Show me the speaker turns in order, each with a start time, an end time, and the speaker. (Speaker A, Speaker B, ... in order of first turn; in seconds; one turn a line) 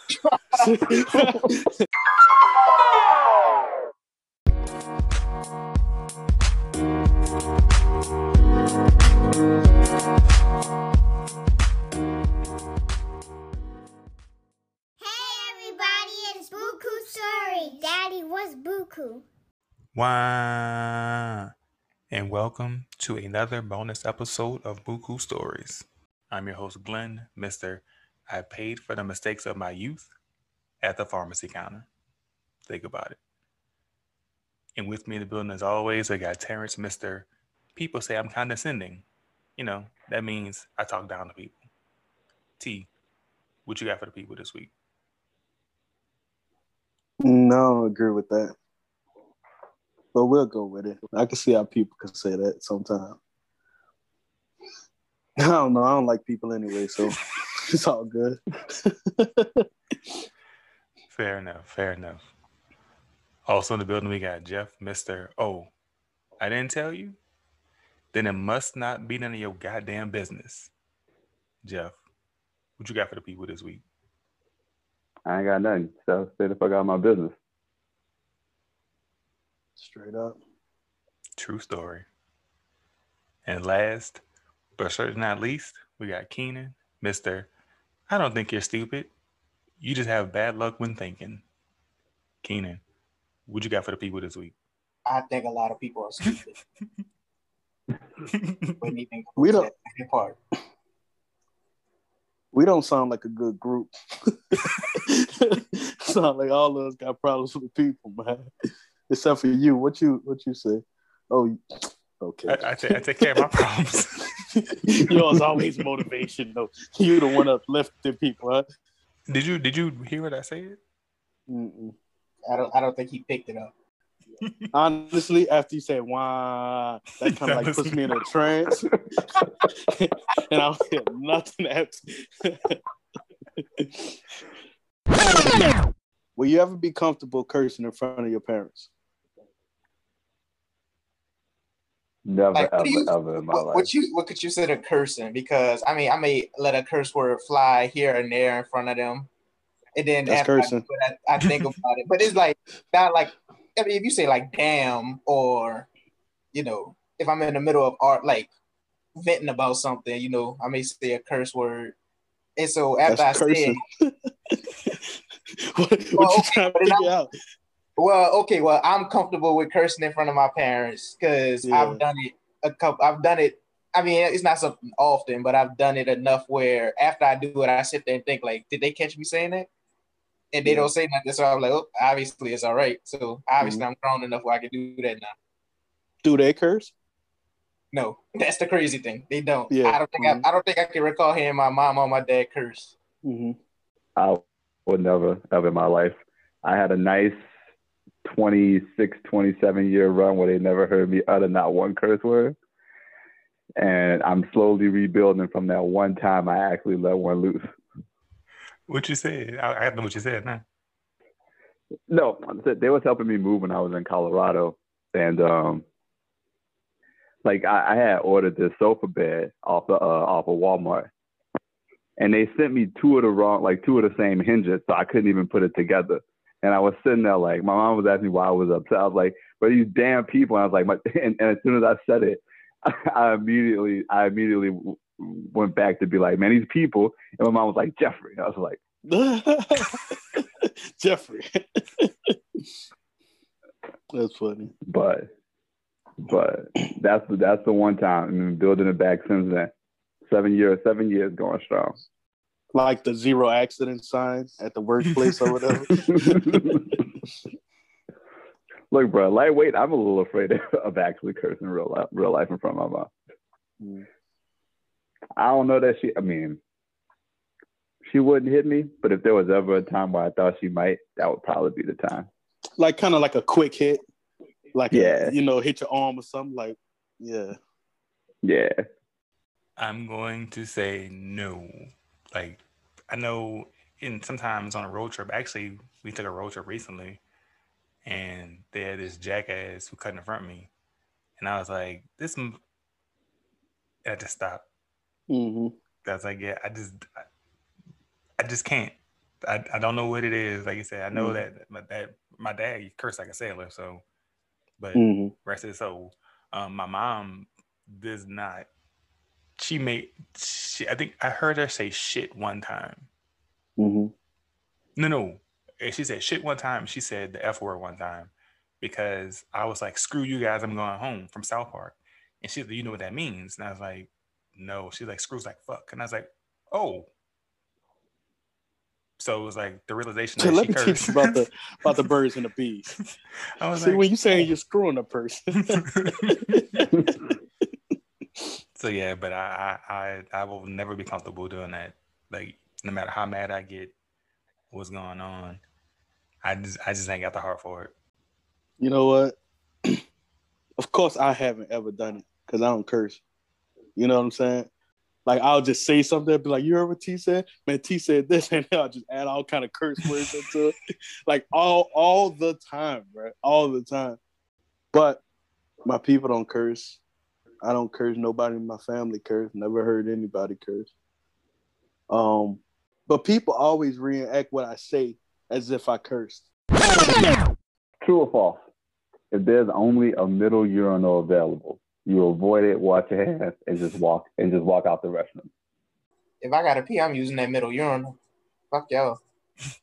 Speaker A: 0.2-0.6
Speaker B: 0.6-1.6
Speaker C: 15.0-19.2
Speaker D: 19.9-21.5
Speaker D: 22.1-30.1
Speaker D: 30.8-31.9
Speaker D: 32.7-33.2
Speaker D: 34.8-39.1
Speaker D: 39.6-41.6
Speaker D: 42.6-42.9
Speaker D: 43.7-44.7
Speaker B: 47.2-48.5
Speaker B: 50.1-53.2
Speaker B: 55.4-57.2
Speaker B: 57.7-59.6
Speaker D: 61.1-62.3
Speaker D: 63.5-65.7
Speaker D: 66.4-67.2
Speaker D: 68.1-70.7
Speaker D: 71.6-72.0
Speaker D: 72.8-73.8
Speaker E: 75.3-77.3
Speaker B: 79.8-80.4
Speaker D: 81.4-82.1
Speaker D: 83.5-84.2
Speaker D: 84.8-87.5
Speaker D: 88.1-89.1
Speaker D: 89.8-91.4
Speaker D: 92.4-92.8
Speaker D: 93.5-94.6
Speaker A: 95.1-96.5
Speaker D: 98.2-98.7
Speaker A: 98.8-100.4
Speaker B: 99.4-99.7
Speaker B: 102.5-103.9
Speaker B: 104.5-108.5
Speaker B: 109.1-111.6
Speaker B: 112.2-112.7
Speaker D: 112.5-114.3
Speaker B: 114.8-118.7
Speaker D: 119.3-120.8
Speaker B: 121.5-122.0
Speaker A: 122.5-123.7
Speaker B: 124.7-128.9
Speaker D: 127.3-128.1
Speaker B: 129.9-132.8
Speaker B: 133.6-134.2
Speaker B: 136.4-138.9
Speaker E: 142.2-143.9
Speaker A: 142.5-149.3
Speaker A: 149.9-155.9
Speaker B: 150.3-150.8
Speaker A: 156.5-158.5
Speaker A: 159.2-162.0
Speaker A: 162.6-163.8
Speaker B: 163.1-167.3
Speaker A: 166.2-167.1
Speaker A: 168.0-179.7
Speaker B: 171.6-172.0
Speaker A: 180.5-185.3
Speaker B: 180.7-180.9
Speaker B: 186.2-186.9
Speaker A: 187.9-192.9
Speaker B: 189.7-190.4
Speaker B: 193.2-193.6
Speaker E: 194.2-197.4
Speaker E: 198.2-202.6
Speaker E: 203.8-207.7
Speaker D: 208.9-210.6
Speaker E: 212.1-215.8
Speaker E: 217.4-221.1
Speaker E: 222.2-238.8
Speaker B: 239.1-242.1
Speaker B: 244.1-244.7
Speaker E: 244.9-245.3
Speaker E: 246.2-249.7
Speaker E: 250.3-252.0
Speaker B: 252.7-256.8
Speaker E: 258.9-263.1
Speaker B: 263.8-264.1
Speaker E: 265.4-266.6
Speaker E: 268.1-272.3
Speaker B: 272.8-274.0
Speaker B: 274.7-277.6
Speaker E: 274.9-275.3
Speaker E: 278.4-278.8
Speaker D: 279.8-287.2
Speaker D: 288.1-290.7
Speaker D: 291.4-292.6
Speaker D: 294.1-294.7
Speaker B: 295.3-295.8
Speaker D: 296.0-297.2
Speaker D: 298.4-304.0
Speaker B: 301.1-301.4
Speaker D: 304.8-308.7
Speaker B: 304.9-305.3
Speaker D: 309.6-313.1
Speaker B: 313.8-314.1
Speaker D: 315.0-327.1
Speaker D: 329.2-331.3
Speaker B: 330.4-332.9
Speaker D: 333.6-334.5
Speaker B: 333.8-335.8
Speaker D: 336.1-336.9
Speaker D: 338.8-344.0
Speaker D: 344.7-345.6
Speaker D: 346.4-347.9
Speaker B: 348.8-349.4
Speaker B: 350.8-353.2
Speaker B: 354.0-354.7
Speaker B: 355.2-360.8
Speaker B: 361.3-364.2
Speaker B: 364.9-365.2
Speaker B: 365.9-367.0
Speaker B: 367.6-370.9
Speaker B: 372.1-376.5
Speaker E: 378.0-378.6
Speaker E: 379.3-385.5
Speaker A: 386.4-388.2
Speaker A: 388.7-389.2